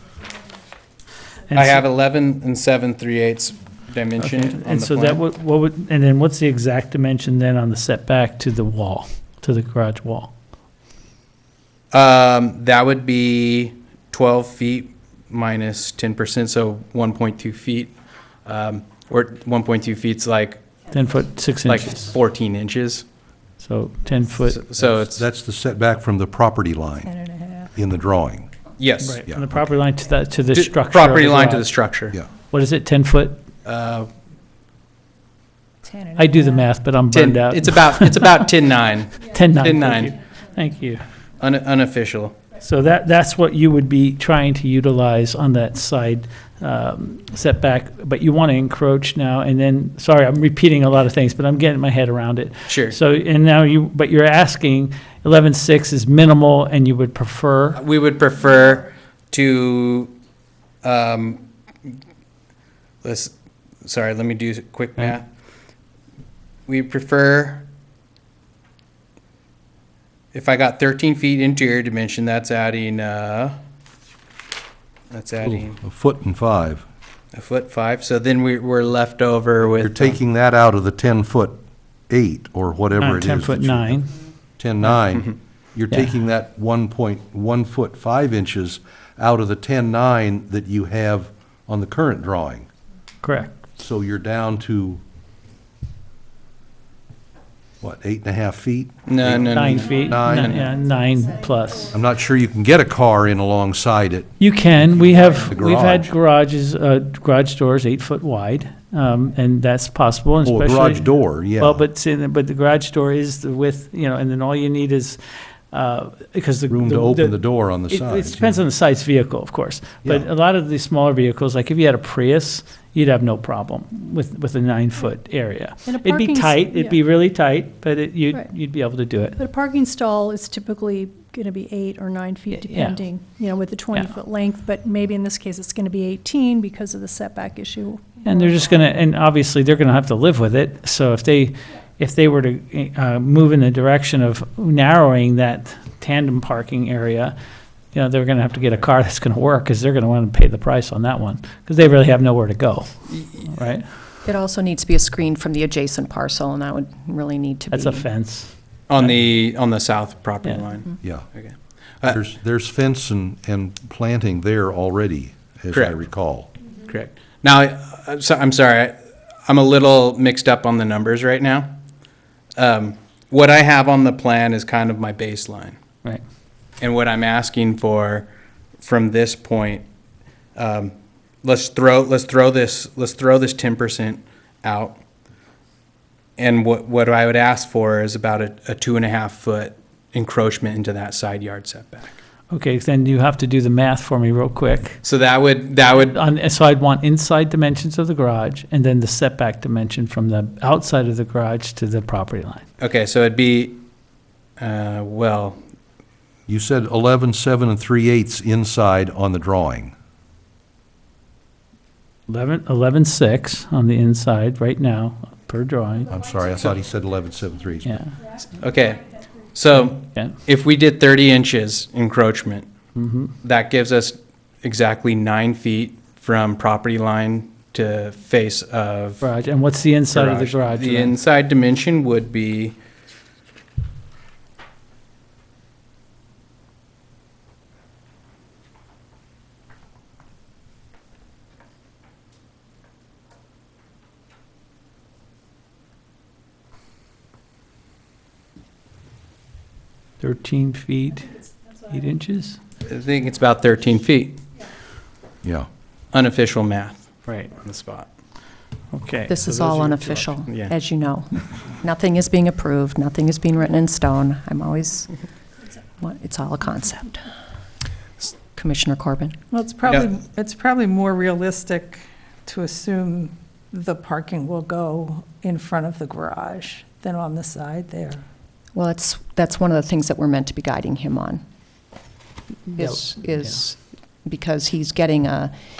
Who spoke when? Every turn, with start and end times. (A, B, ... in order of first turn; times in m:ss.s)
0:01.5-0:01.8 A
0:01.5-0:05.2 B
0:04.2-0:10.3 A
0:11.9-0:20.6 B
0:20.9-0:22.1 A
0:21.6-0:23.0 B
0:23.6-0:24.6 A
0:24.5-0:25.2 B
0:24.8-0:27.1 C
0:27.0-0:27.7 D
0:27.7-0:28.5 C
0:28.8-0:29.2 B
0:29.0-0:31.8 A
0:29.2-0:29.7 C
0:30.5-0:32.2 B
0:32.3-0:33.4 A
0:33.6-0:34.1 B
0:35.8-0:36.7 D
0:36.2-0:38.3 A
0:37.1-0:40.1 B
0:39.2-0:41.1 A
0:41.4-0:42.4 B
0:42.6-0:57.8 A
0:52.7-0:53.0 B
0:57.8-1:00.1 B
1:00.8-1:01.4 B
1:03.0-1:05.3 B
1:06.7-1:07.6 B
1:10.3-1:13.6 B
1:15.1-1:15.8 B
1:15.4-1:16.8 C
1:17.3-1:20.2 B
1:19.8-1:24.0 C
1:23.0-1:24.1 A
1:24.6-1:32.7 C
1:33.2-1:33.6 A
1:33.8-1:35.0 C
1:37.8-1:40.6 C
1:39.1-1:40.7 B
1:39.5-1:41.9 A
1:41.9-1:44.3 C
1:44.4-1:55.2 A
1:45.0-1:46.1 C
1:50.4-1:51.8 C
1:55.7-2:09.4 A
1:56.7-1:58.6 C
2:05.9-2:06.9 E
2:09.4-2:18.4 E
2:12.5-2:13.1 A
2:18.2-2:27.3 A
2:27.9-2:33.8 A
2:33.1-2:33.7 B
2:34.2-2:38.1 F
2:37.7-2:39.2 A
2:38.9-2:42.2 B
2:41.0-2:41.3 C
2:41.9-2:46.5 C
2:45.7-2:46.0 B
2:46.9-2:51.8 B
2:52.6-2:55.8 B
2:56.8-2:59.9 B
3:00.5-3:05.0 B
3:06.4-3:12.2 B
3:12.5-3:15.0 A
3:15.0-3:16.2 B
3:15.9-3:22.6 A
3:22.8-3:23.8 B
3:24.6-3:25.6 B
3:26.5-3:29.9 C
3:32.3-3:36.1 A
3:36.1-3:38.0 C
3:37.8-3:38.2 A
3:38.5-3:42.7 B
3:39.9-3:40.3 A
3:42.9-3:43.3 A
3:43.4-3:49.2 B
3:49.2-3:51.1 A
3:50.1-3:52.8 B
4:10.2-4:12.6 A
4:12.8-4:14.4 B
4:15.4-4:15.7 C
4:16.1-4:18.1 B
4:18.9-4:20.4 A
4:19.3-4:25.2 F
4:26.0-4:27.3 F
4:28.5-4:29.4 F
4:29.5-4:38.2 D
4:38.7-4:41.4 F
4:42.7-4:43.6 A
4:42.8-4:45.5 F